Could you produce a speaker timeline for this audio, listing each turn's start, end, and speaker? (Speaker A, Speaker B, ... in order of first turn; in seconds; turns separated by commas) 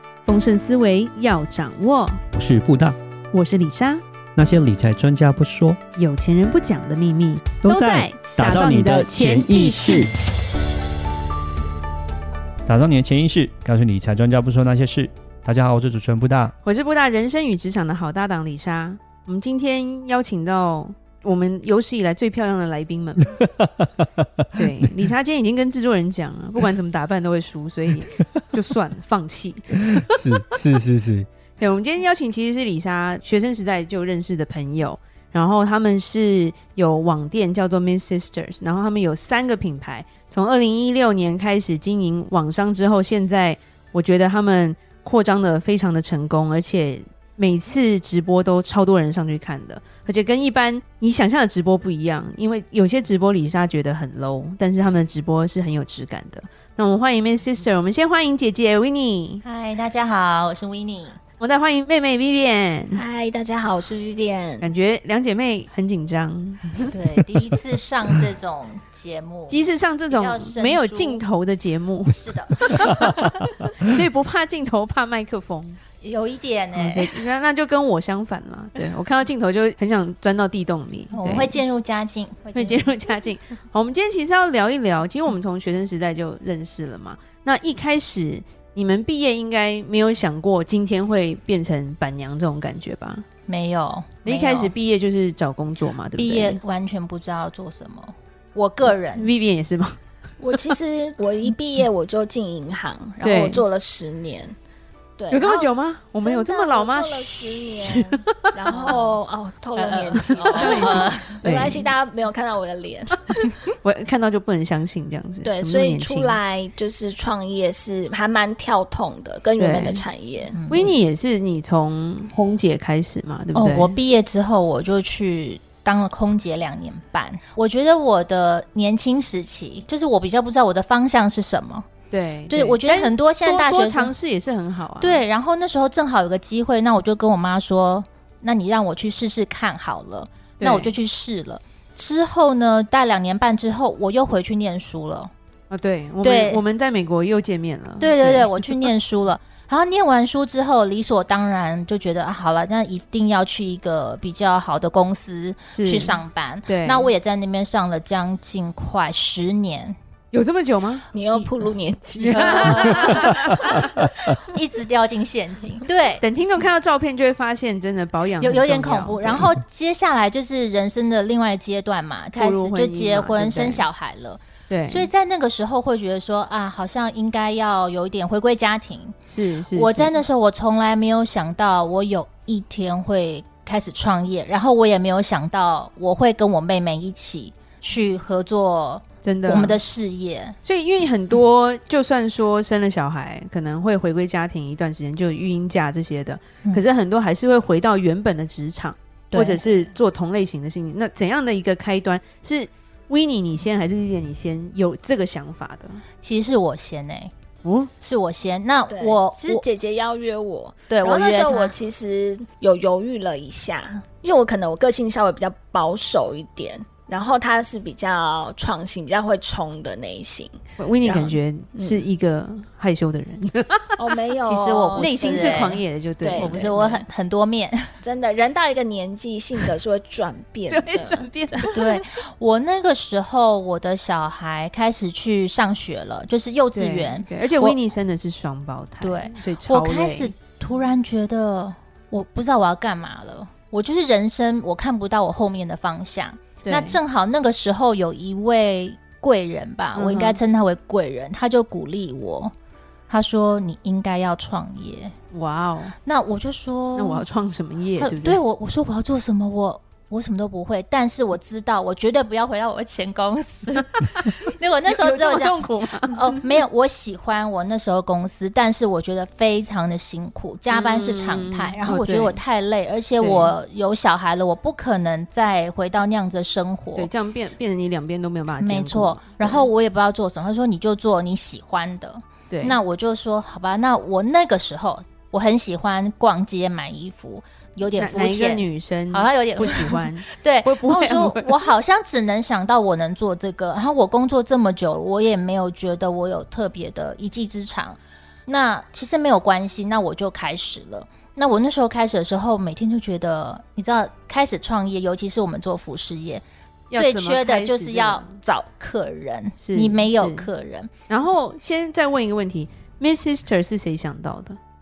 Speaker A: 0.2-2.2, Speaker B: 2.3-3.0, Speaker A: 3.3-4.0, Speaker B: 4.4-5.8, Speaker A: 6.0-10.1, Speaker B: 7.6-10.1, Speaker B: 12.7-16.5, Speaker A: 16.6-23.4, Speaker B: 23.4-24.5, Speaker A: 24.5-30.4, Speaker B: 29.9-31.3, Speaker A: 31.6-59.4, Speaker C: 59.4-61.2, Speaker A: 61.4-63.0, Speaker D: 62.9-64.7, Speaker A: 64.6-66.9, Speaker C: 66.9-71.2, Speaker A: 69.5-75.8, Speaker C: 72.1-73.0, Speaker C: 76.0-77.1, Speaker A: 76.7-81.6, Speaker C: 81.1-82.9, Speaker A: 82.5-93.2, Speaker C: 93.5-94.7, Speaker A: 94.2-96.6, Speaker C: 96.2-99.3, Speaker A: 98.9-100.0, Speaker D: 100.4-104.5, Speaker A: 103.2-103.6, Speaker D: 105.2-113.2, Speaker A: 105.3-109.0, Speaker C: 108.7-109.2, Speaker C: 109.8-111.4, Speaker A: 110.5-111.9, Speaker A: 113.7-116.4, Speaker D: 115.4-120.6, Speaker A: 119.6-120.0, Speaker C: 120.5-121.0, Speaker A: 120.7-124.0, Speaker C: 123.5-131.9, Speaker A: 132.1-135.2, Speaker C: 132.5-134.1, Speaker C: 135.0-145.3, Speaker A: 140.6-140.9, Speaker A: 145.7-148.9, Speaker C: 146.2-146.6, Speaker C: 148.0-160.0, Speaker A: 155.7-157.1, Speaker A: 160.3-161.1, Speaker D: 161.1-163.8, Speaker A: 162.3-163.5, Speaker C: 162.3-166.2, Speaker A: 166.2-169.5, Speaker C: 168.4-179.2, Speaker A: 172.3-173.9, Speaker A: 174.7-175.1, Speaker A: 179.3-180.2, Speaker C: 179.7-190.6, Speaker A: 189.2-189.8, Speaker A: 190.6-206.0, Speaker C: 199.3-199.6, Speaker C: 206.2-207.3, Speaker A: 207.6-207.9, Speaker C: 208.0-209.7, Speaker D: 208.9-222.1, Speaker C: 210.9-211.8, Speaker A: 220.8-224.0, Speaker D: 224.0-227.1, Speaker C: 224.4-225.8, Speaker A: 225.0-226.7, Speaker C: 226.3-227.9, Speaker D: 228.0-232.0, Speaker A: 230.7-231.8, Speaker C: 231.7-237.8, Speaker A: 236.7-240.4, Speaker C: 239.0-252.5, Speaker A: 246.6-247.0, Speaker A: 249.9-250.4, Speaker C: 253.1-255.1, Speaker A: 255.3-255.9, Speaker C: 256.0-257.3, Speaker A: 257.0-258.4, Speaker C: 258.0-277.1, Speaker A: 264.9-266.5, Speaker A: 270.7-272.4, Speaker A: 273.2-273.5, Speaker A: 276.9-279.7, Speaker C: 278.6-310.9, Speaker A: 282.5-282.8, Speaker A: 287.9-291.7, Speaker A: 306.9-308.4, Speaker A: 309.6-310.5, Speaker A: 311.1-314.6